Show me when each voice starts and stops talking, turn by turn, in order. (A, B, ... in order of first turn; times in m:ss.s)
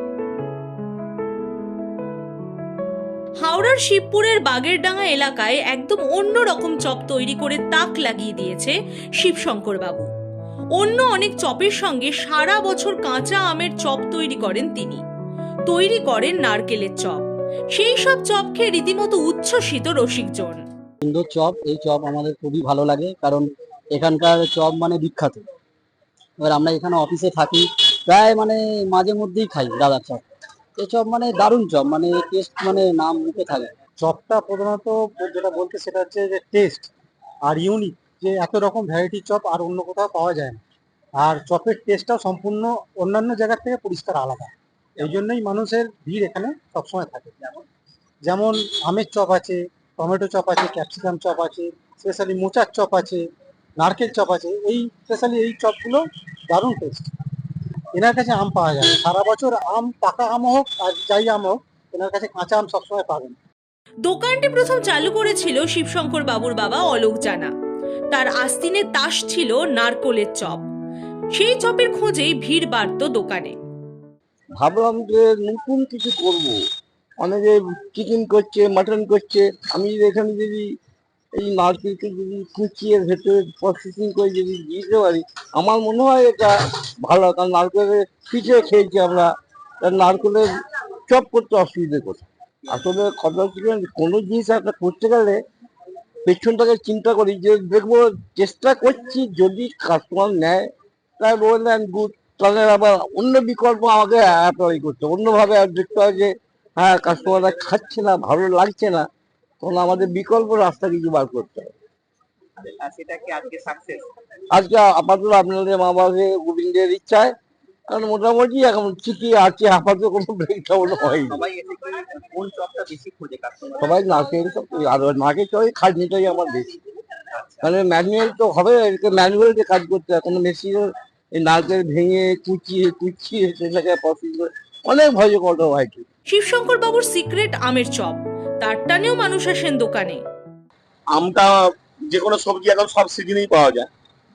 0:03.4-0:10.1 A
0:10.8-0:15.0 A
0:15.7-0:20.6 A
0:21.0-0:25.4 B
0:26.4-0:30.2 B
0:30.8-0:33.7 B
0:34.0-0:36.9 C
0:37.5-0:40.6 C
0:41.2-0:47.6 C
0:48.2-0:53.2 C
0:53.8-0:57.0 C
0:57.9-1:03.4 C
1:04.0-1:07.5 A
1:08.1-1:10.6 A
1:11.3-1:13.6 A
1:14.6-1:16.5 D
1:17.2-1:20.7 D
1:21.3-1:30.5 D
1:31.1-1:35.4 D
1:36.2-1:49.1 D
1:49.6-1:51.7 D
1:52.6-1:54.0 E
1:54.5-1:57.3 D
1:57.9-2:01.4 D
2:01.3-2:03.9 E
2:03.8-2:06.7 D
2:07.6-2:16.0 D
2:16.3-2:20.2 A
2:21.1-2:21.5 F
2:22.1-2:23.9 F